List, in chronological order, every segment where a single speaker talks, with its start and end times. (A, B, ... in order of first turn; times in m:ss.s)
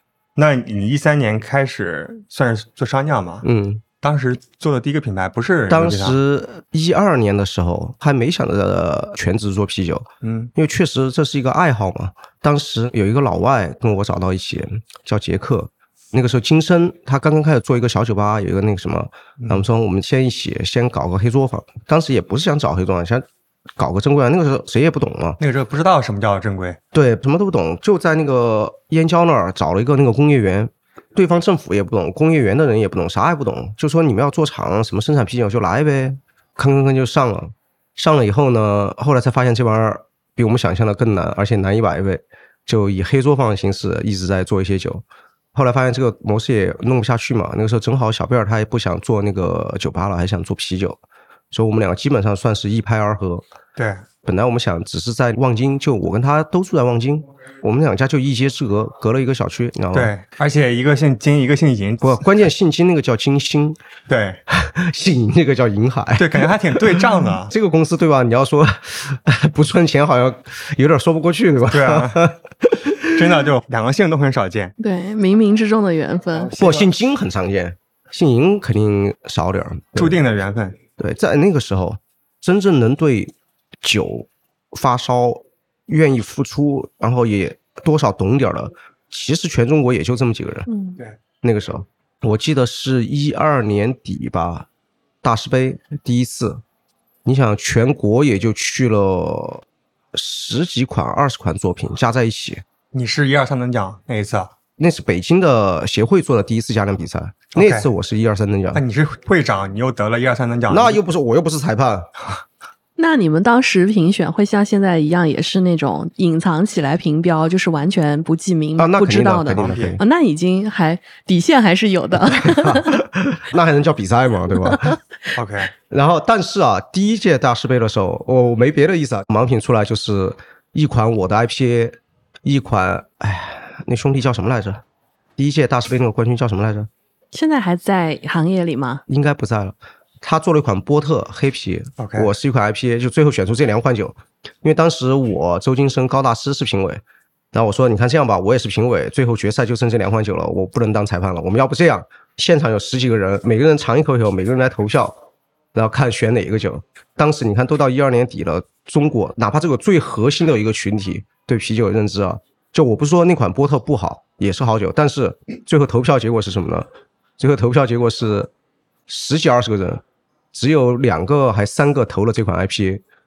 0:00.4-0:03.4 A
0:03.4-0:03.8 B
0:04.0-0:06.2 A
0:05.7-0:23.2 B
0:10.2-0:10.5 A
0:23.8-0:25.4 B
0:25.4-0:26.8 A
0:26.9-0:51.0 B
0:51.5-0:53.4 B
0:53.8-0:54.0 A
0:54.2-1:00.1 B
0:59.9-1:02.2 A
1:02.0-1:03.8 B
1:04.1-1:04.4 A
1:04.5-1:13.5 B
1:06.2-1:07.5 A
1:11.7-1:12.2 A
1:13.1-1:14.7 A
1:14.8-1:16.5 C
1:16.3-1:16.9 A
1:16.6-1:20.2 B
1:20.0-1:20.8 A
1:21.0-1:30.7 B
1:30.7-1:31.0 C
1:31.4-1:34.7 B
1:35.2-1:36.6 B
1:37.2-1:42.6 B
1:42.9-1:44.5 A
1:44.8-1:48.8 B
1:47.5-1:47.9 A
1:48.7-1:51.0 A
1:50.7-1:52.1 B
1:53.0-2:03.0 C
1:58.8-2:00.0 B
1:59.5-2:00.0 A
2:02.3-2:05.0 B
2:05.3-2:05.7 A
2:05.9-2:14.8 B
2:15.4-2:16.9 B
2:17.3-2:19.0 C
2:19.1-2:27.0 B
2:22.0-2:22.3 A
2:27.5-2:35.2 B
2:35.7-2:46.9 B
2:47.4-2:48.5 B
2:49.1-2:53.0 B